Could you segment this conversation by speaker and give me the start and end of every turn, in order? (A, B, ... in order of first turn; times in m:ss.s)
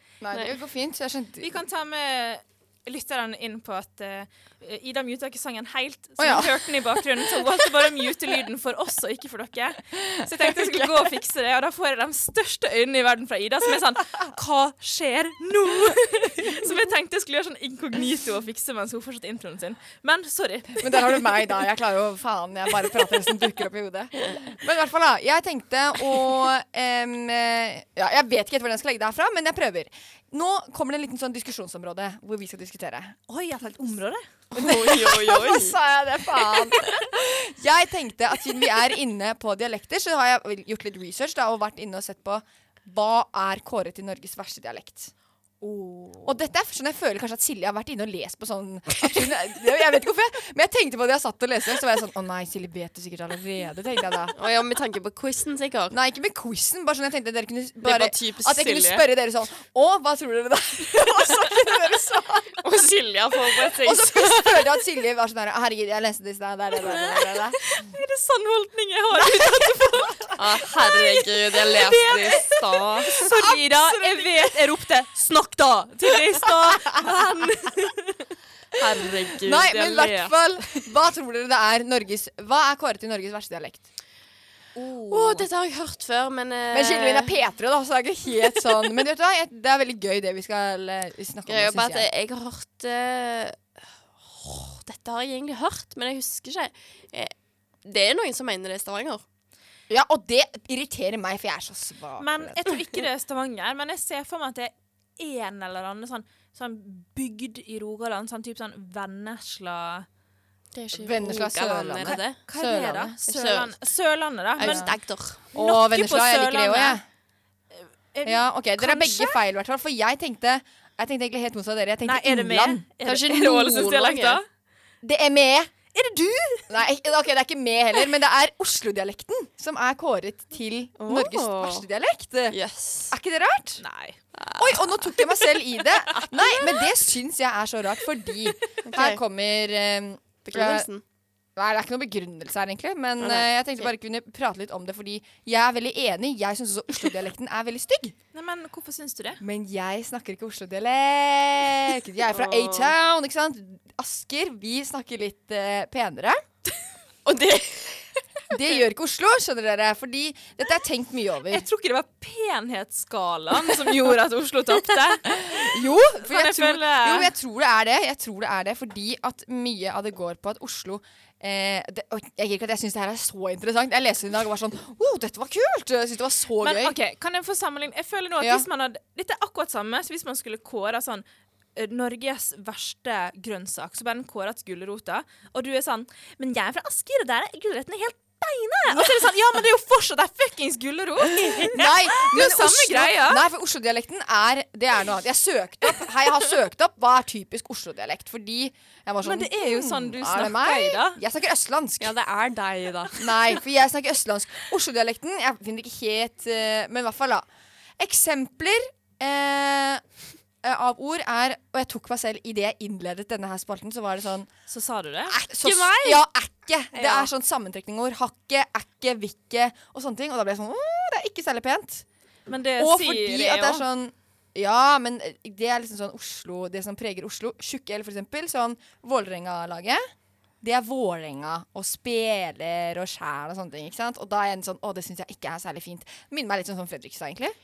0:00.2-0:01.5 A
0:01.4-0:21.2 B
0:06.2-0:07.0 A
0:10.4-0:10.9 A
0:20.8-0:33.2 A
0:33.3-0:34.2 B
0:34.5-0:35.8 C
0:34.6-0:45.1 A
0:45.7-0:46.2 B
0:46.2-0:54.3 A
0:54.4-0:56.0 C
0:55.9-1:02.5 A
0:57.8-0:59.0 C
1:02.6-1:04.6 C
1:03.8-1:07.6 A
1:07.6-1:18.2 B
1:10.4-1:13.1 C
1:13.1-1:14.5 A
1:16.4-1:17.0 A
1:18.8-1:20.3 C
1:19.4-1:23.9 A
1:24.7-1:25.5 A
1:25.1-1:27.3 C
1:26.7-1:32.0 A
1:31.5-1:37.3 C
1:37.8-1:39.2 C
1:39.9-1:42.7 A
1:42.2-1:50.1 B
1:50.7-1:52.4 C
1:50.9-1:53.2 A
1:52.5-1:54.9 B
1:53.3-1:53.7 C
1:54.6-1:55.4 C
1:54.6-1:54.9 A
1:55.5-1:57.0 B
1:55.5-1:57.0 A
1:57.8-1:59.4 B
1:58.2-2:02.8 A
2:02.0-2:04.4 B
2:03.0-2:04.4 C
2:05.0-2:05.7 A
2:05.9-2:06.7 B
2:06.7-2:12.6 A
2:11.0-2:11.8 C
2:12.5-2:13.1 C
2:13.1-2:13.8 A
2:13.8-2:14.2 B
2:14.3-2:15.2 C
2:14.6-2:20.9 A
2:16.1-2:16.8 C
2:18.8-2:19.2 C
2:20.4-2:21.0 C
2:21.6-2:28.1 A
2:23.2-2:23.8 C
2:28.3-2:29.4 B
2:29.4-2:36.4 A
2:32.3-2:32.9 C
2:37.2-2:38.2 C
2:38.5-2:41.6 A
2:41.5-2:47.3 B
2:45.3-2:57.0 A
2:56.6-3:01.2 B
2:58.4-2:58.7 A
3:01.8-3:13.4 B
3:08.9-3:09.2 A
3:11.3-3:22.1 A
3:19.2-3:21.2 B
3:22.1-3:23.1 C
3:23.2-3:27.4 A
3:28.0-3:30.0 A
3:30.6-3:34.5 A
3:34.7-3:35.4 B
3:35.3-3:42.0 A
3:35.6-3:36.2 C
3:36.9-3:37.3 B
3:42.5-3:43.8 B
3:42.8-3:50.0 A
3:50.6-3:57.5 A